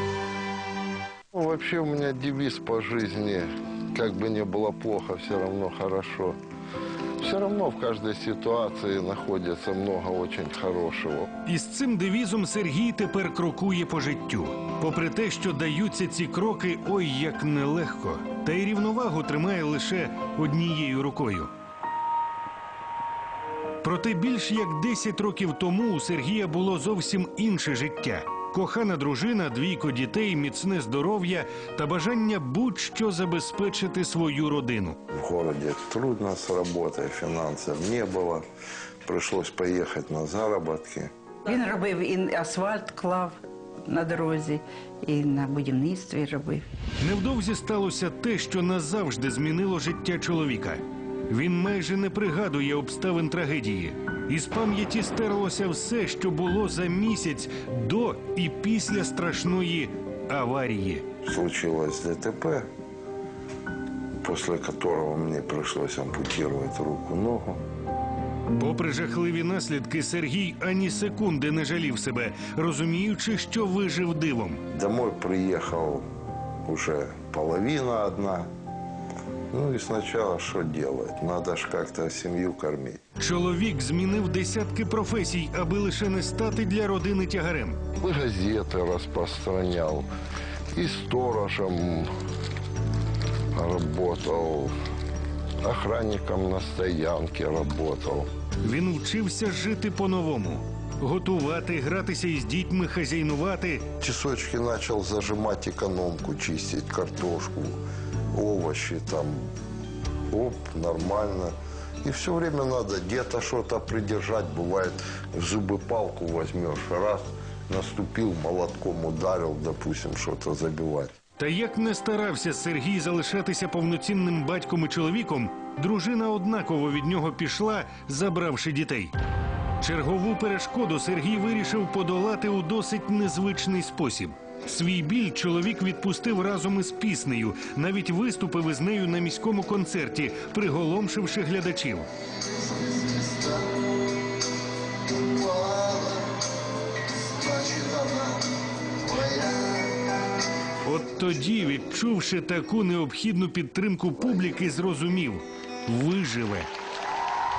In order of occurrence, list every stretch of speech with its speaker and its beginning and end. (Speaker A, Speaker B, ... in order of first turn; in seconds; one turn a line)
Speaker A: 1.3-6.4
Speaker A: 7.2-11.3
Speaker B: 11.4-21.5
Speaker B: 23.8-35.0
Speaker A: 35.1-38.4
Speaker A: 39.0-41.1
Speaker C: 41.4-46.7
Speaker B: 47.0-61.0
Speaker A: 61.2-62.6
Speaker A: 64.2-67.6
Speaker B: 68.6-74.6
Speaker A: 74.7-76.0
Speaker A: 76.6-78.5
Speaker A: 79.5-83.0
Speaker B: 83.2-87.8
Speaker A: 88.0-90.1
Speaker A: 90.7-92.1
Speaker A: 93.5-94.7
Speaker A: 95.6-98.3
Speaker B: 98.6-103.8
Speaker A: 104.0-107.8
Speaker A: 108.3-109.4
Speaker A: 110.3-121.1
Speaker B: 121.4-129.1
Speaker B: 129.8-142.1
Speaker A: 142.5-143.8
Speaker A: 145.1-146.4
Speaker A: 147.1-150.0
Speaker B: 150.8-156.7